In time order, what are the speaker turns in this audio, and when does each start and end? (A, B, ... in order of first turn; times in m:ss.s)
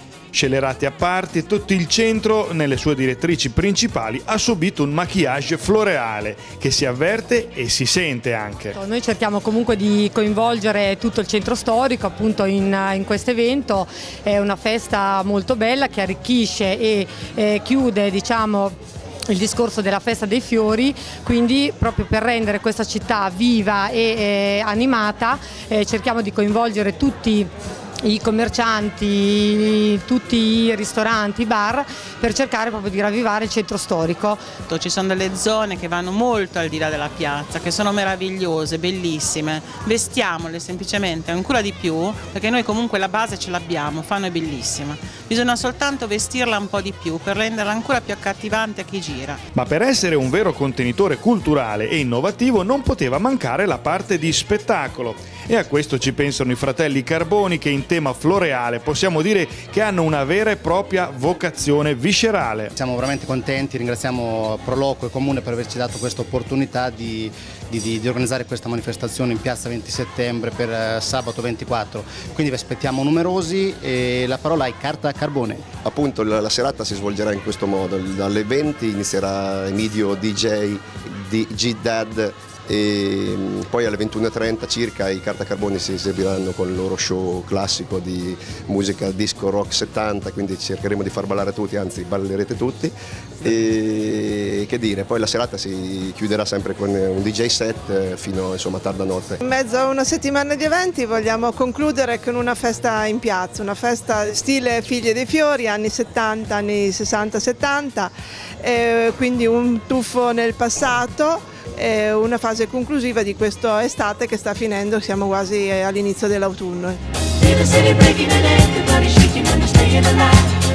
0:00.3-0:08.8 A
0:08.7-0:18.7 B
0:19.3-0:27.5 B
0:28.0-0:34.4 B
0:34.7-0:49.4 C
0:49.5-1:02.7 A
1:02.7-1:15.6 D
1:15.8-1:39.4 E
1:39.4-1:57.0 F